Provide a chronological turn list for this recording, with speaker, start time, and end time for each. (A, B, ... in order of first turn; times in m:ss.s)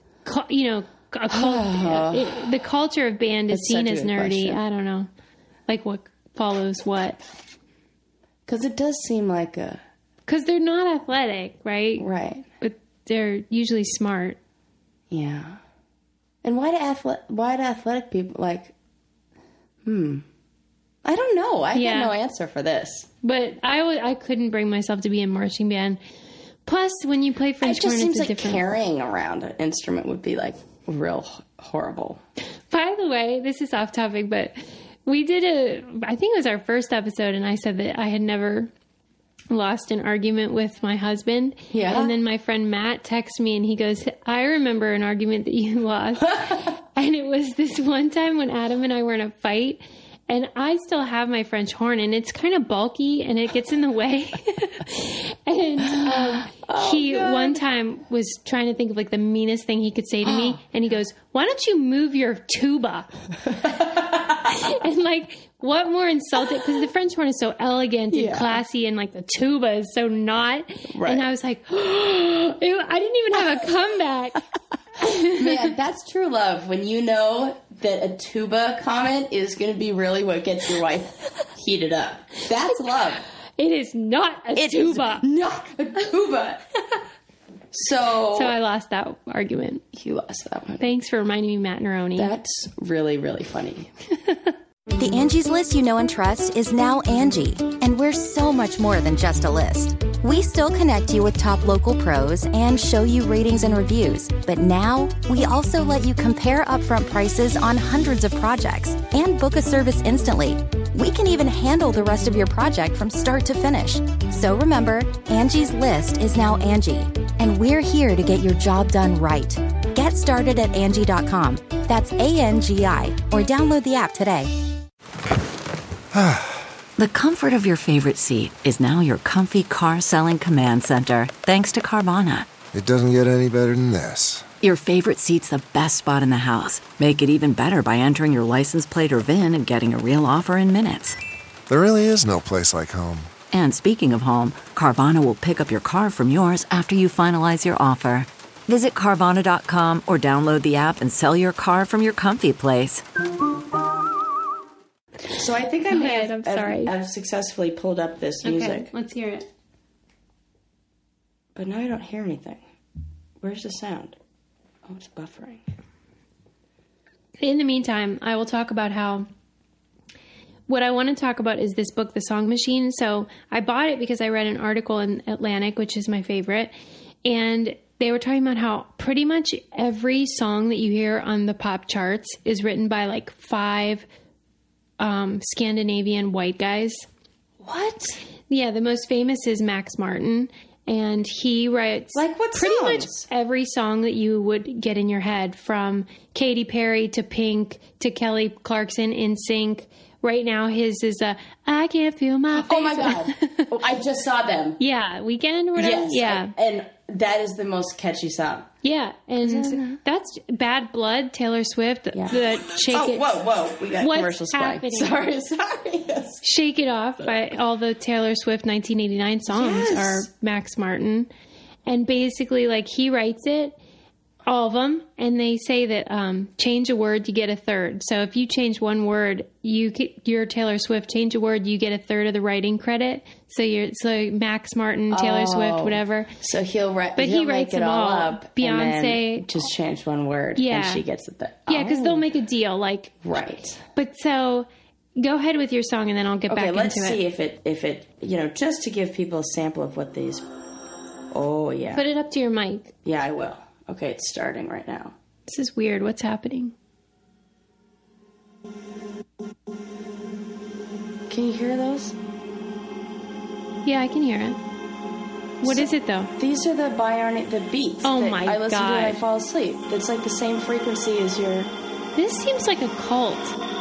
0:00.2-0:05.1 A
0:01.3-0:02.4 B
0:03.5-0:04.6 B
0:05.7-0:07.2 A
0:08.5-0:09.8 B
0:10.3-0:12.1 A
0:12.0-0:12.5 B
0:12.6-0:14.4 A
0:15.1-0:15.6 B
0:16.4-0:18.7 B
0:19.8-0:20.3 B
0:21.0-0:23.1 B
0:21.7-0:22.1 A
0:23.2-0:26.0 A
0:26.7-0:28.6 A
0:27.6-0:32.2 B
0:32.7-0:38.7 A
0:39.5-1:03.1 A
0:41.7-0:42.1 B
0:55.9-0:57.6 B
1:00.2-1:00.6 B
1:03.7-1:04.5 B
1:04.4-1:14.4 A
1:08.1-1:08.6 B
1:10.9-1:11.3 B
1:15.0-1:15.7 A
1:15.0-1:23.2 B
1:23.6-1:25.2 A
1:24.6-1:26.6 B
1:27.7-1:28.6 B
1:28.3-1:29.8 A
1:29.9-1:30.8 B
1:30.8-1:32.3 A
1:32.2-1:33.9 B
1:35.0-2:04.5 C
2:06.1-2:06.6 D
2:07.0-2:12.5 E
2:12.7-2:14.5 D
2:14.6-2:21.2 E
2:21.7-2:23.3 D
2:23.5-2:33.0 E
2:35.4-2:38.9 B
2:35.9-2:36.9 A
2:38.4-2:39.5 A
2:41.6-2:42.6 B
2:43.4-2:44.2 B
2:44.8-2:45.7 B
2:47.4-2:49.3 A
2:50.7-2:56.7 A
2:57.2-3:04.1 A
3:05.0-3:07.1 A
3:07.6-3:08.2 B
3:08.5-3:23.7 A
3:12.2-3:13.3 B
3:22.5-3:24.8 B
3:24.8-3:26.5 A
3:25.8-3:28.7 B
3:28.8-3:33.4 A
3:29.4-3:30.0 B
3:32.1-3:36.4 B
3:34.0-3:35.1 A
3:36.4-3:41.3 A
3:39.5-3:40.3 B
3:41.9-3:43.8 A
3:44.5-3:56.3 A
3:55.1-4:02.3 B
3:57.2-3:59.6 A
4:00.6-4:01.0 A
4:01.7-4:03.2 A
4:03.2-4:03.8 B
4:03.9-4:04.7 A
4:05.2-4:07.2 A
4:06.5-4:10.5 B
4:11.3-4:12.0 B
4:11.9-4:12.9 A
4:13.0-4:15.2 B
4:15.5-4:16.7 A
4:21.3-4:22.2 B
4:23.8-4:24.6 A
4:25.6-4:31.7 B
4:25.6-4:26.3 A
4:28.0-4:29.2 A
4:32.2-4:33.6 A